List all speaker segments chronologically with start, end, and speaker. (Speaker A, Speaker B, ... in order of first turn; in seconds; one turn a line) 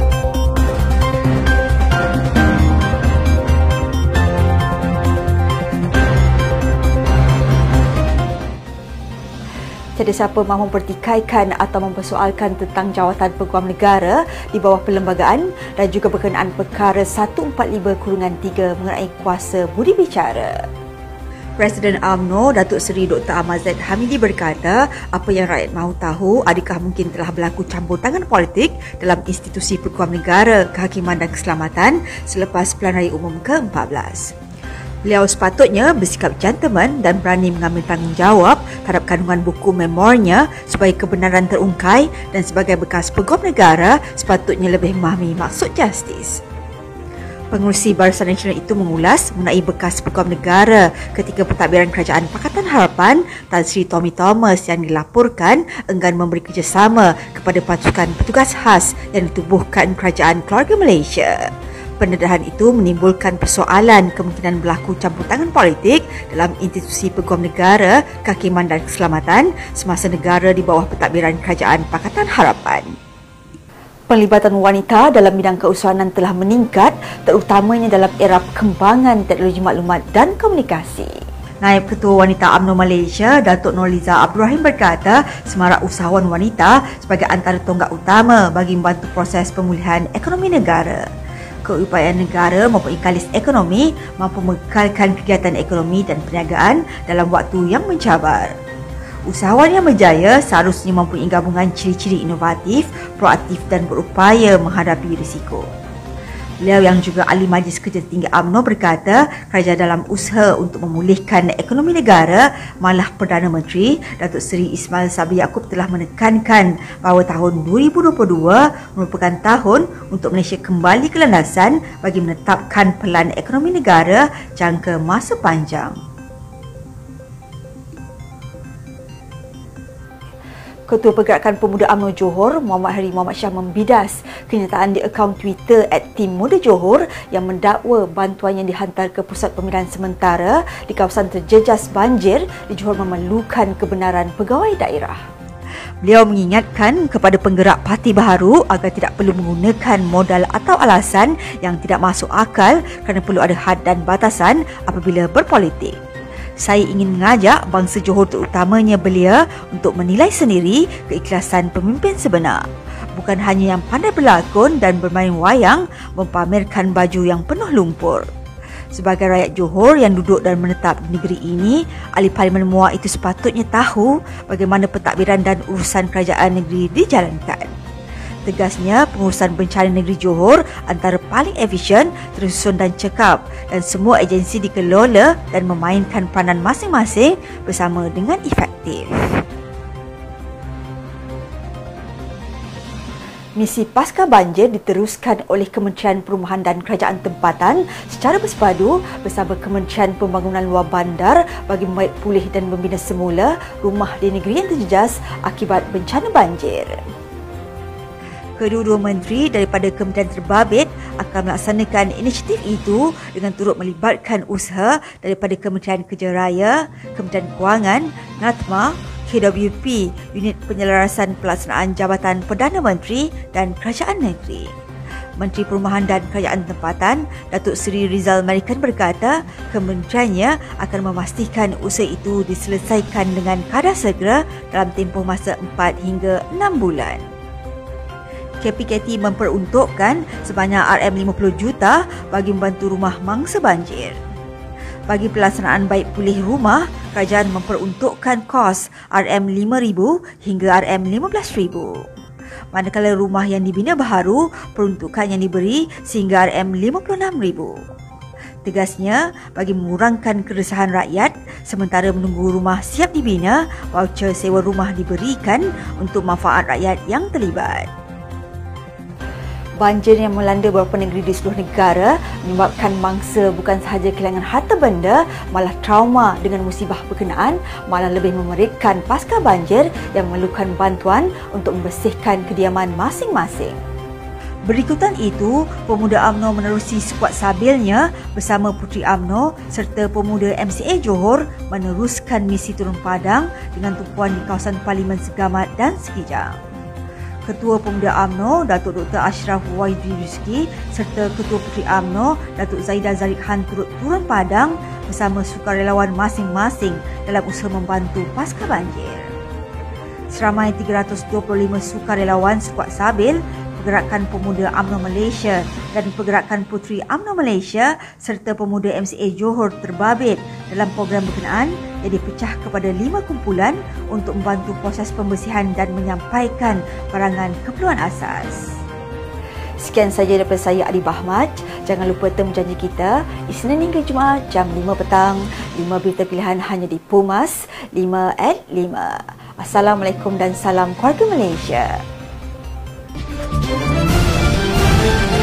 Speaker A: 9.9-20.6
Speaker A: 21.6-34.3
Speaker A: 35.0-46.4
Speaker A: 47.5-73.0
Speaker A: 74.1-91.0
Speaker A: 91.6-98.5
Speaker A: 99.2-105.7
Speaker A: 106.6-126.0
Speaker A: 130.9-145.2
Speaker A: 146.0-156.0
Speaker A: 156.6-162.6
Speaker A: 163.1-168.3
Speaker A: 168.9-177.7
Speaker A: 178.4-189.4
Speaker A: 193.6-207.0
Speaker A: 208.6-224.7
Speaker A: 225.4-237.3
Speaker A: 238.6-244.2
Speaker A: 245.1-252.0
Speaker A: 252.7-257.8
Speaker A: 258.6-267.9
Speaker A: 269.8-283.8
Speaker A: 284.7-296.6
Speaker A: 297.4-309.3
Speaker A: 310.3-328.7
Speaker A: 329.8-342.0